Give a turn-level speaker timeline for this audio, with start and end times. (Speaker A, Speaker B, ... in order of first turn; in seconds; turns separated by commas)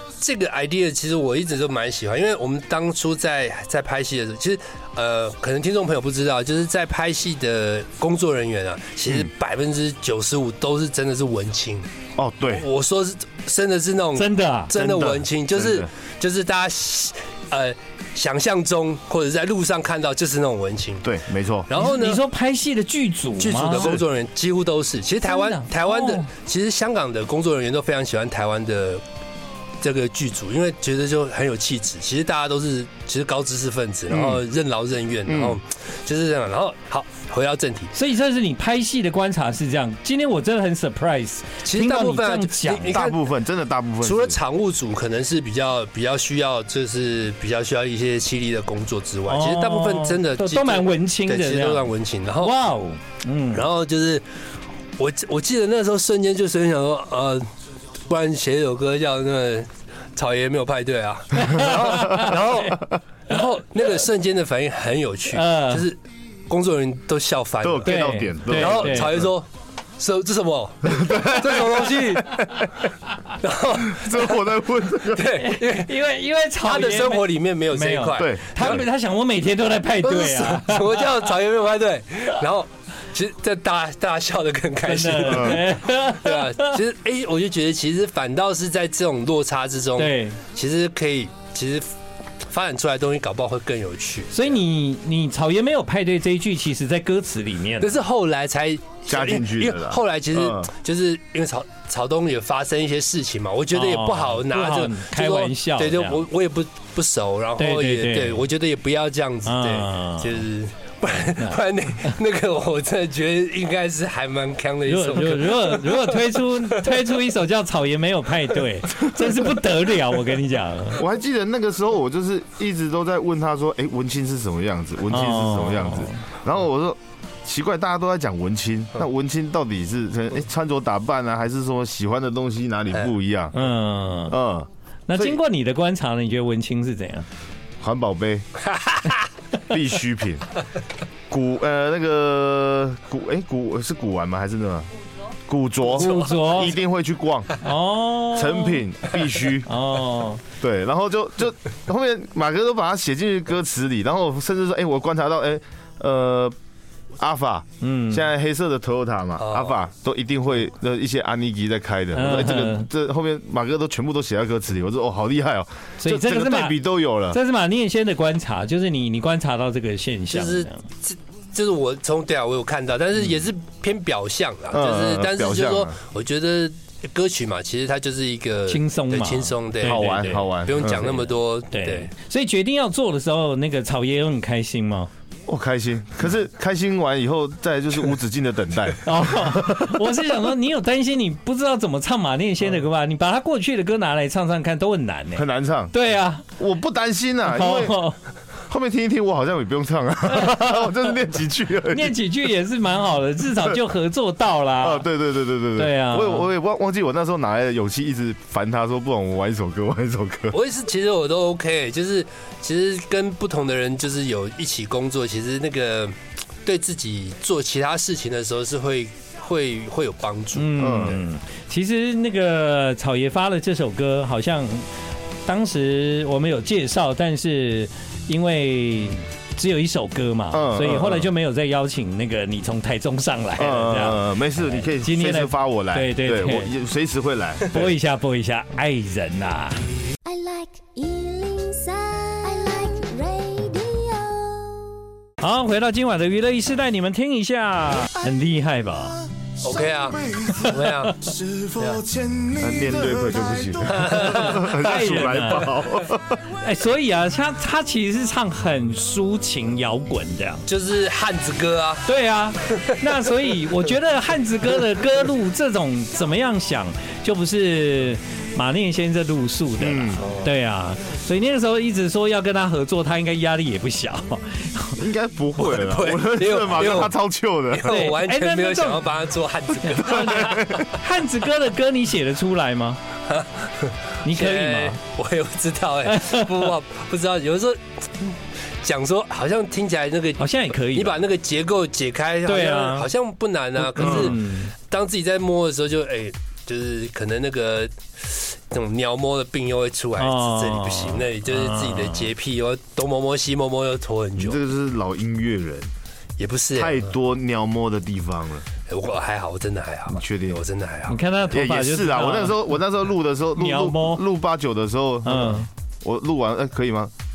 Speaker A: 0.2-11.9, Speaker B: 12.2-12.7, Speaker A: 12.5-21.1, Speaker C: 14.2-14.7, Speaker B: 14.7-15.9, Speaker B: 21.0-21.7, Speaker A: 21.7-22.2, Speaker C: 21.7-23.9, Speaker A: 23.4-29.0, Speaker B: 23.8-24.0, Speaker C: 25.2-26.3, Speaker A: 29.8-37.9, Speaker B: 34.1-34.4, Speaker B: 35.3-35.6, Speaker C: 37.9-43.0, Speaker A: 41.6-43.3, Speaker B: 42.9-44.4, Speaker A: 44.0-52.6, Speaker C: 49.3-51.9, Speaker C: 52.4-53.7, Speaker A: 53.5-54.2, Speaker A: 55.0-57.5, Speaker A: 58.1-69.5, Speaker C: 61.4-62.8, Speaker B: 61.5-63.0, Speaker C: 65.3-65.8, Speaker B: 67.6-69.3, Speaker C: 67.8-69.2, Speaker A: 70.0-72.7, Speaker B: 70.8-72.7, Speaker A: 73.4-75.9, Speaker B: 73.8-75.4, Speaker C: 75.3-81.1, Speaker A: 76.6-78.8, Speaker B: 78.2-78.8, Speaker A: 80.0-91.9, Speaker C: 84.8-86.8, Speaker B: 85.3-85.7, Speaker C: 90.0-90.4, Speaker A: 92.5-94.6, Speaker C: 94.3-97.9, Speaker A: 97.8-117.2, Speaker B: 99.1-100.7, Speaker C: 103.7-106.2, Speaker C: 107.6-108.4, Speaker C: 109.5-110.4, Speaker C: 114.9-121.0, Speaker B: 120.9-133.6, Speaker C: 125.1-126.2, Speaker C: 133.5-134.4, Speaker B: 134.3-135.4, Speaker C: 135.1-137.3, Speaker B: 137.8-138.4, Speaker A: 138.7-139.2, Speaker B: 139.7-140.5, Speaker B: 141.3-144.9, Speaker B: 145.5-147.5, Speaker A: 145.9-146.4, Speaker C: 145.9-146.8, Speaker C: 147.6-148.8, Speaker B: 148.3-149.8, Speaker C: 149.7-150.4, Speaker B: 150.6-156.5, Speaker B: 157.2-167.4, Speaker C: 157.8-158.3, Speaker A: 159.4-159.8, Speaker C: 162.1-162.9, Speaker C: 166.0-170.8, Speaker A: 170.3-182.1, Speaker B: 174.7-175.9, Speaker C: 178.7-180.5, Speaker B: 179.8-181.3, Speaker C: 181.7-185.1, Speaker B: 185.5-190.1, Speaker C: 189.0-196.4, Speaker B: 195.3-195.9, Speaker B: 196.6-198.0, Speaker C: 197.5-198.2, Speaker B: 198.7-202.1, Speaker C: 200.3-201.1, Speaker C: 201.9-205.1, Speaker B: 204.8-210.6, Speaker C: 205.8-206.5, Speaker A: 210.5-221.2, Speaker C: 220.5-224.9, Speaker B: 220.8-221.2, Speaker C: 225.4-236.7, Speaker B: 230.5-231.3, Speaker B: 233.6-237.9, Speaker C: 237.7-239.8, Speaker D: 240.2-245.0, Speaker C: 245.4-249.2, Speaker A: 249.6-252.1, Speaker C: 250.5-251.1, Speaker B: 252.4-256.4, Speaker A: 253.8-255.9, Speaker C: 254.1-255.8, Speaker C: 256.5-260.6, Speaker A: 260.7-262.1, Speaker C: 262.1-275.0, Speaker A: 262.7-263.0, Speaker B: 269.8-270.2, Speaker A: 270.2-270.5, Speaker B: 275.0-278.1, Speaker A: 275.6-277.1, Speaker A: 277.7-280.9, Speaker C: 277.8-279.1, Speaker C: 279.8-283.0, Speaker B: 280.2-280.9, Speaker A: 283.3-304.6, Speaker C: 284.2-285.0, Speaker C: 286.1-286.7, Speaker C: 290.4-291.2, Speaker C: 292.4-293.1, Speaker C: 293.8-294.7, Speaker B: 294.0-294.3, Speaker C: 300.2-302.3, Speaker B: 304.4-305.9, Speaker A: 306.4-307.1, Speaker B: 306.7-308.6, Speaker A: 308.9-311.2, Speaker B: 310.1-310.6, Speaker C: 311.1-312.6, Speaker B: 311.5-317.1, Speaker C: 313.6-314.2, Speaker C: 315.2-315.7